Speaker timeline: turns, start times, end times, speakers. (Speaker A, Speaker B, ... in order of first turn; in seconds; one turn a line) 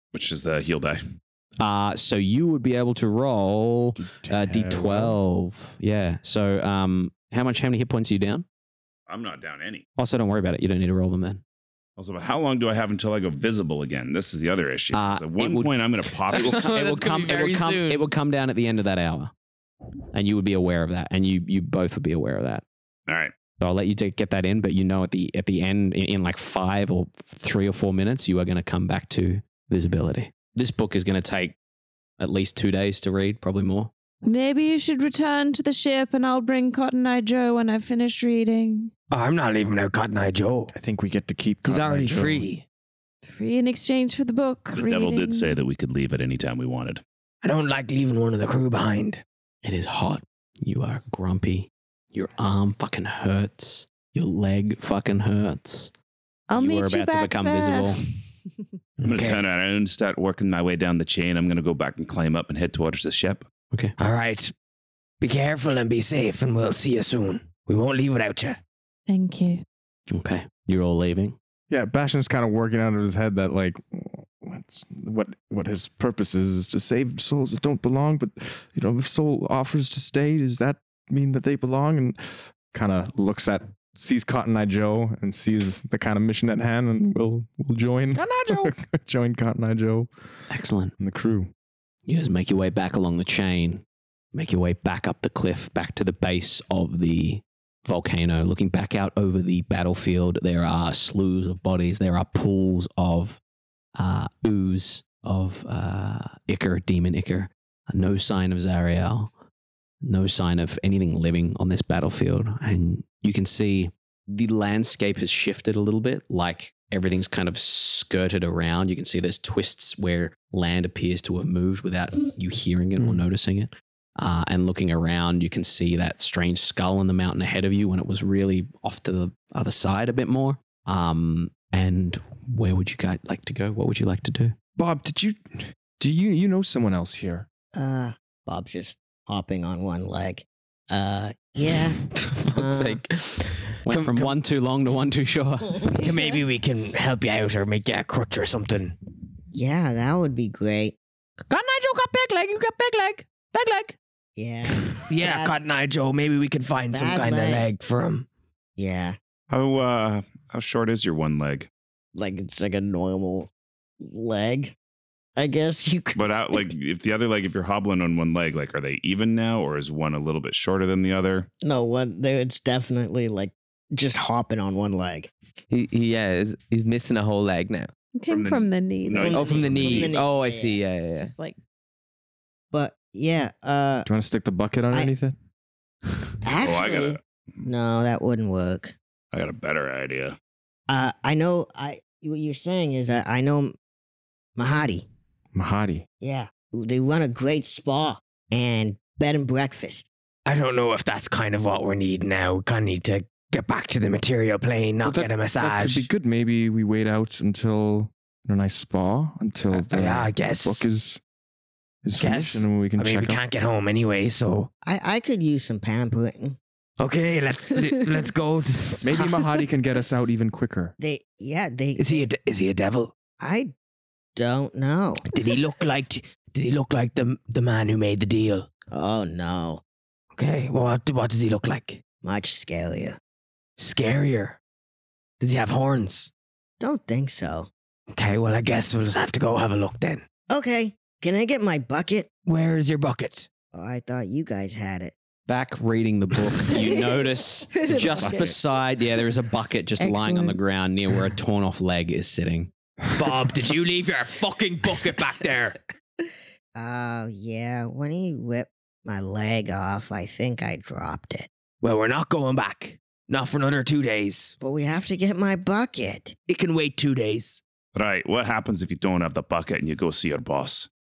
Speaker A: 0.1-1.0
Speaker B: 1.6-8.4
Speaker C: 4.2-5.2
Speaker A: 9.1-9.8
Speaker B: 10.0-11.4
Speaker A: 12.0-16.8
Speaker B: 14.9-15.7
Speaker B: 16.4-19.3
Speaker D: 16.8-18.0
Speaker B: 20.1-22.6
Speaker A: 23.1-23.3
Speaker B: 23.6-31.6
Speaker B: 32.2-33.9
Speaker E: 34.2-38.9
Speaker F: 39.1-40.7
Speaker C: 40.7-42.5
Speaker F: 41.6-42.6
Speaker E: 43.2-45.5
Speaker A: 44.7-47.0
Speaker F: 47.4-49.2
Speaker B: 49.6-55.9
Speaker E: 56.5-58.2
Speaker B: 56.5-58.0
Speaker F: 59.0-59.5
Speaker A: 59.0-63.5
Speaker F: 64.0-64.5
Speaker F: 65.2-68.6
Speaker E: 69.1-69.6
Speaker B: 70.1-71.4
Speaker C: 71.7-90.1
Speaker F: 88.2-88.7
Speaker B: 90.5-91.0
Speaker C: 91.0-91.5
Speaker B: 92.1-93.8
Speaker B: 94.3-103.4
Speaker B: 104.0-109.3
Speaker B: 110.0-134.6
Speaker C: 134.8-137.5
Speaker G: 137.7-143.0
Speaker F: 142.4-144.3
Speaker B: 143.8-145.8
Speaker F: 146.0-148.9
Speaker G: 149.5-150.9
Speaker F: 151.5-154.0
Speaker G: 154.4-155.6
Speaker F: 155.1-158.3
Speaker G: 156.9-157.7
Speaker G: 158.8-159.2
Speaker A: 159.5-161.7
Speaker G: 162.2-163.5
Speaker G: 164.0-164.8
Speaker G: 165.4-166.7
Speaker A: 166.2-171.5
Speaker G: 171.6-175.3
Speaker D: 175.7-177.9
Speaker E: 178.2-179.5
Speaker A: 178.3-180.2
Speaker G: 179.1-180.9
Speaker D: 179.3-181.1
Speaker E: 181.1-181.6
Speaker G: 182.7-184.1
Speaker C: 184.1-185.3
Speaker G: 186.4-188.9
Speaker A: 186.6-187.2
Speaker A: 189.3-190.4
Speaker G: 190.9-193.7
Speaker G: 194.6-195.1
Speaker C: 195.5-196.1
Speaker G: 196.2-200.1
Speaker F: 200.4-206.1
Speaker C: 205.0-211.2
Speaker F: 209.7-210.9
Speaker C: 212.0-213.4
Speaker F: 212.2-214.7
Speaker G: 214.8-216.6
Speaker F: 217.0-219.6
Speaker C: 219.0-220.9
Speaker G: 221.0-222.3
Speaker F: 222.0-223.1
Speaker G: 223.4-223.7
Speaker G: 224.4-225.3
Speaker F: 225.3-228.7
Speaker G: 228.9-229.8
Speaker F: 230.3-232.0
Speaker G: 232.2-233.2
Speaker F: 233.8-234.6
Speaker F: 235.4-236.3
Speaker G: 236.8-237.7
Speaker F: 238.1-240.2
Speaker G: 240.5-242.3
Speaker F: 242.5-243.5
Speaker G: 243.7-245.1
Speaker B: 245.5-252.7
Speaker E: 247.7-248.6
Speaker E: 250.0-250.6
Speaker F: 253.2-255.8
Speaker G: 256.8-261.5
Speaker F: 261.8-264.6
Speaker G: 264.6-266.3
Speaker F: 266.5-267.6
Speaker A: 267.9-270.9